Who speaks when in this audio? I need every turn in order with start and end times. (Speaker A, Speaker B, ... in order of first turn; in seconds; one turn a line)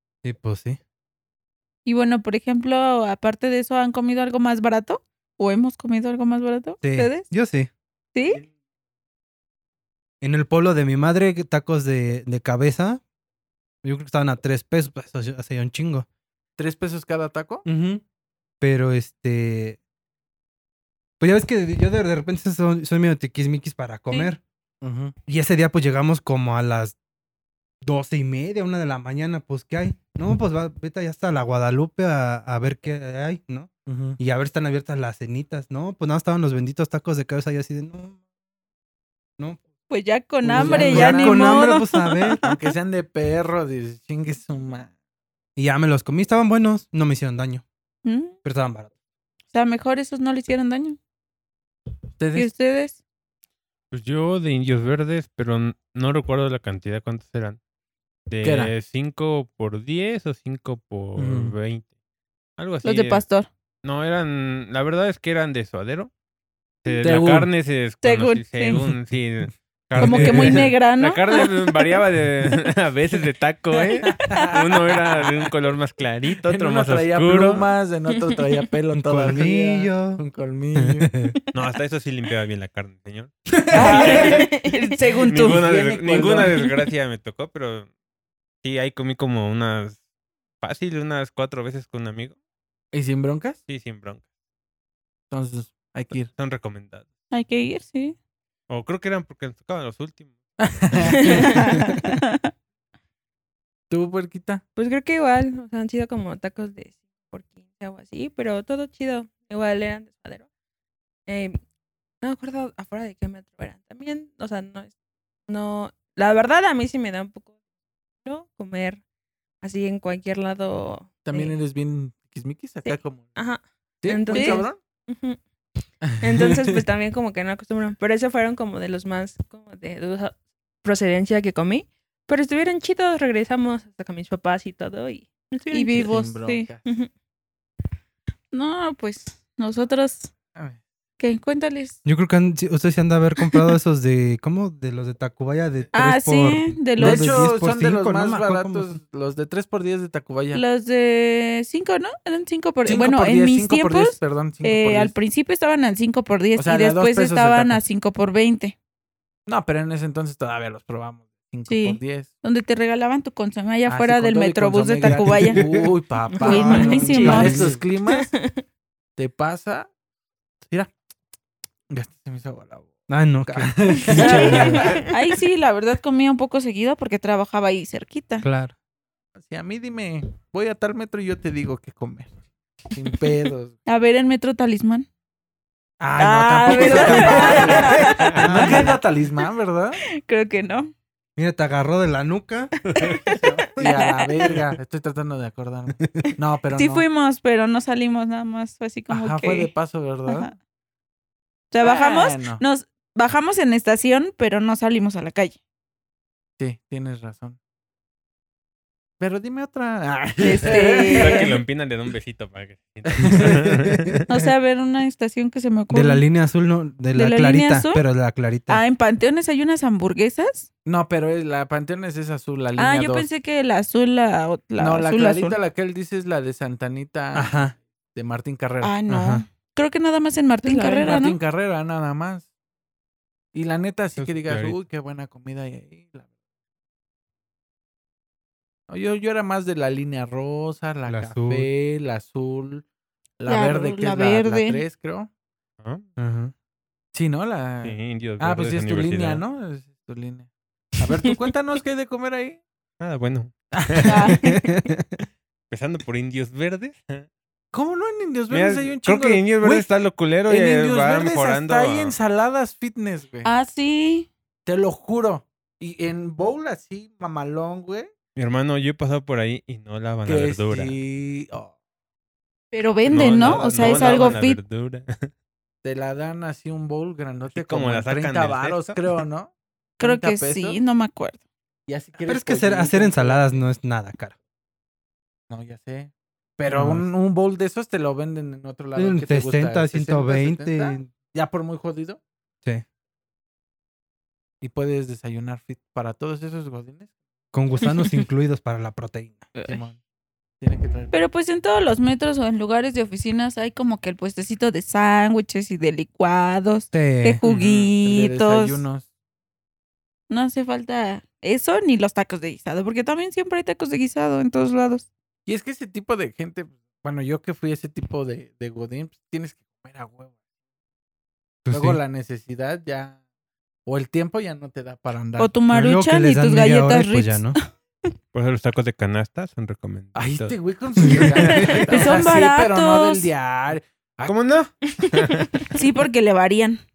Speaker A: 0.2-0.8
Speaker B: 1.9-7.3
Speaker A: 6.8-7.7
Speaker B: 8.1-8.4
Speaker A: 10.2-13.0
Speaker A: 13.8-16.1
Speaker C: 16.6-17.7
Speaker A: 17.6-18.0
Speaker A: 18.6-19.8
Speaker A: 21.2-24.4
Speaker C: 24.8-25.1
Speaker A: 25.3-27.0
Speaker A: 27.8-38.2
Speaker C: 33.9-34.2
Speaker A: 39.4-39.6
Speaker B: 39.9-42.5
Speaker A: 40.4-42.4
Speaker C: 40.5-41.6
Speaker C: 42.4-44.9
Speaker A: 45.6-47.6
Speaker B: 48.0-48.4
Speaker A: 48.4-48.9
Speaker B: 49.5-51.0
Speaker C: 52.2-52.5
Speaker B: 52.4-53.0
Speaker D: 53.9-57.6
Speaker D: 58.3-61.9
Speaker C: 58.4-58.7
Speaker C: 61.2-61.5
Speaker D: 62.6-63.2
Speaker B: 62.8-63.5
Speaker D: 63.8-66.1
Speaker D: 66.8-77.7
Speaker C: 67.0-67.5
Speaker B: 68.0-68.8
Speaker A: 70.0-70.7
Speaker B: 70.0-71.7
Speaker C: 74.0-75.5
Speaker C: 76.4-81.1
Speaker A: 78.9-80.2
Speaker A: 80.8-81.3
Speaker D: 81.5-83.8
Speaker B: 83.7-85.6
Speaker C: 83.7-84.5
Speaker E: 83.8-84.7
Speaker D: 85.3-87.9
Speaker C: 85.3-86.6
Speaker D: 88.6-90.0
Speaker D: 90.6-92.4
Speaker C: 92.9-93.6
Speaker D: 93.7-94.2
Speaker C: 95.3-96.3
Speaker D: 96.3-97.1
Speaker B: 97.3-98.2
Speaker D: 98.7-100.4
Speaker C: 100.6-101.7
Speaker E: 101.2-101.7
Speaker B: 101.7-102.3
Speaker C: 103.9-104.6
Speaker E: 104.8-110.5
Speaker E: 111.3-111.6
Speaker E: 112.2-114.9
Speaker E: 115.5-117.5
Speaker E: 118.2-119.0
Speaker E: 119.6-121.5
Speaker C: 121.2-123.4
Speaker E: 122.8-125.4
Speaker C: 124.0-124.8
Speaker B: 124.3-124.7
Speaker C: 126.1-126.6
Speaker E: 126.1-136.1
Speaker B: 135.7-136.7
Speaker C: 135.9-136.8
Speaker B: 138.5-140.3
Speaker B: 141.2-142.0
Speaker A: 142.1-149.0
Speaker B: 145.9-147.5
Speaker C: 147.0-150.6
Speaker B: 150.5-158.8
Speaker C: 152.9-155.1
Speaker C: 156.6-157.8
Speaker C: 159.5-162.3
Speaker B: 161.7-165.6
Speaker C: 163.9-168.3
Speaker A: 165.0-165.9
Speaker E: 166.3-167.5
Speaker B: 166.4-167.6
Speaker A: 166.8-167.8
Speaker E: 168.1-168.5
Speaker C: 169.2-169.9
Speaker C: 170.7-170.9
Speaker C: 171.9-172.9
Speaker A: 173.1-174.9
Speaker C: 173.5-174.9
Speaker E: 174.1-175.0
Speaker B: 174.2-178.5
Speaker A: 178.4-178.7
Speaker C: 179.4-182.3
Speaker C: 182.9-183.8
Speaker B: 183.9-185.1
Speaker C: 186.0-190.0
Speaker E: 186.2-188.0
Speaker B: 186.6-188.9
Speaker D: 188.1-188.5
Speaker A: 188.3-189.0
Speaker B: 190.2-190.9
Speaker A: 191.4-192.7
Speaker C: 193.3-197.1
Speaker B: 193.8-194.5
Speaker B: 196.7-199.7
Speaker C: 199.1-200.5
Speaker B: 200.3-200.5
Speaker B: 201.7-205.6
Speaker C: 201.8-202.6
Speaker C: 206.6-207.6
Speaker C: 209.2-211.6
Speaker B: 210.4-211.6
Speaker D: 210.7-214.3
Speaker C: 213.1-213.6
Speaker A: 213.3-214.1
Speaker B: 214.3-216.2
Speaker A: 215.9-218.8
Speaker B: 217.2-218.0
Speaker B: 218.7-220.7
Speaker C: 220.8-223.3
Speaker B: 222.8-225.6
Speaker C: 224.8-229.0
Speaker A: 227.3-227.8
Speaker B: 228.8-231.4
Speaker A: 229.1-229.4
Speaker E: 230.7-231.1
Speaker C: 231.0-232.5
Speaker C: 233.5-236.3
Speaker D: 234.2-234.8
Speaker C: 238.9-242.9
Speaker A: 241.1-241.7
Speaker C: 243.4-245.3
Speaker B: 243.5-244.8
Speaker D: 245.8-246.1
Speaker A: 246.2-246.5
Speaker C: 247.1-252.6
Speaker D: 247.8-249.4
Speaker D: 253.0-254.3
Speaker C: 253.8-254.1
Speaker B: 254.1-254.4
Speaker A: 254.4-255.1
Speaker D: 255.7-257.3
Speaker C: 257.7-259.9
Speaker D: 258.5-262.2
Speaker C: 260.5-263.5
Speaker B: 263.4-264.3
Speaker C: 264.7-268.1
Speaker D: 268.4-271.0
Speaker C: 270.2-271.7
Speaker B: 272.7-274.6
Speaker D: 273.1-275.3
Speaker C: 273.5-274.4
Speaker C: 275.8-280.8
Speaker D: 277.5-279.2
Speaker B: 280.0-281.4
Speaker C: 281.9-283.6
Speaker A: 282.3-284.4
Speaker C: 285.5-292.2
Speaker A: 286.7-287.1
Speaker A: 288.9-291.1
Speaker C: 294.6-297.1
Speaker A: 297.5-299.4
Speaker C: 299.7-300.0
Speaker C: 300.6-301.1
Speaker B: 301.1-308.8
Speaker A: 306.9-307.4
Speaker D: 307.4-307.9
Speaker C: 308.0-309.1
Speaker B: 310.3-315.1
Speaker C: 315.5-320.3
Speaker A: 321.6-322.0
Speaker C: 321.7-323.2
Speaker C: 323.9-325.5
Speaker B: 325.4-327.6
Speaker A: 325.7-327.6
Speaker D: 328.3-330.6
Speaker C: 330.2-334.4
Speaker D: 331.1-331.9
Speaker A: 331.5-331.8
Speaker B: 331.9-333.3
Speaker D: 334.3-335.7
Speaker B: 335.7-336.8